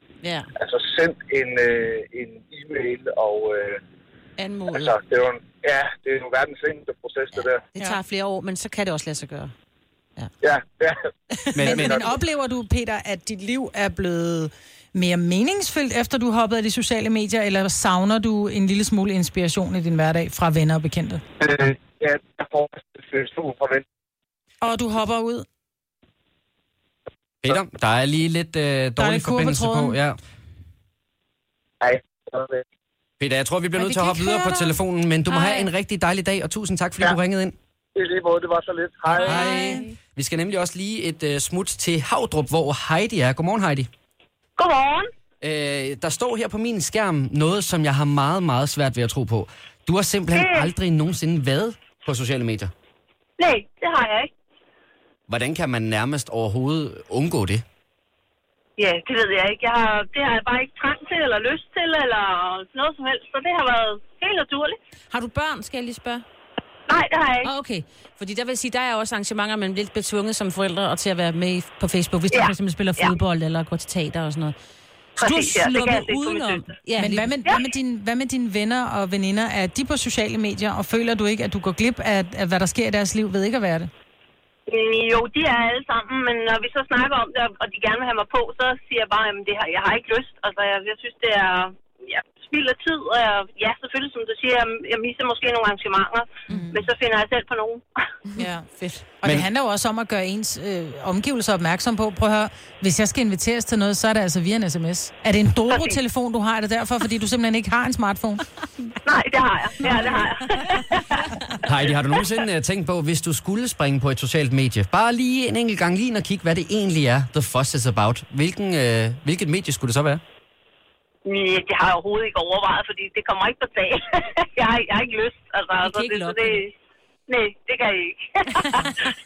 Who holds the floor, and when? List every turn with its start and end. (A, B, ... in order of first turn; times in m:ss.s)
0:00.2-0:00.5 A
0:00.6-0:03.8 B
0:04.4-0:05.0 A
0:04.7-0:07.6 B
0:07.7-0:09.5 A
0:10.4-0:11.0 B
0:11.5-0:12.1 C
0:11.6-0:21.2 D
0:11.6-0:12.1 B
0:21.4-0:23.8 B
0:24.6-0:25.4 D
0:27.4-0:30.2 C
0:29.0-0:30.0 D
0:31.8-0:32.6 B
0:33.2-0:37.5 C
0:33.8-0:34.8 D
0:35.3-0:35.7 A
0:37.9-0:39.8 B
0:39.2-0:43.9 C
0:39.2-0:39.8 D
0:39.3-0:39.7 A
0:44.6-0:45.1 E
0:45.4-0:52.7 C
0:50.3-0:50.7 E
0:53.4-0:54.3 E
0:55.3-0:57.6 C
0:58.8-1:04.8 E
1:05.1-1:06.2 A
1:06.9-1:07.5 E
1:07.4-1:14.5 A
1:12.3-1:13.1 E
1:15.2-1:17.3 A
1:15.2-1:16.7 E
1:17.0-1:23.9 D
1:24.7-1:37.8 E
1:38.4-1:48.4 D
1:45.7-1:46.0 E
1:49.0-1:51.3 E
1:51.6-2:00.2 C
2:01.2-2:06.7 E
2:05.8-2:06.6 A
2:07.3-2:08.9 E
2:08.8-2:09.1 A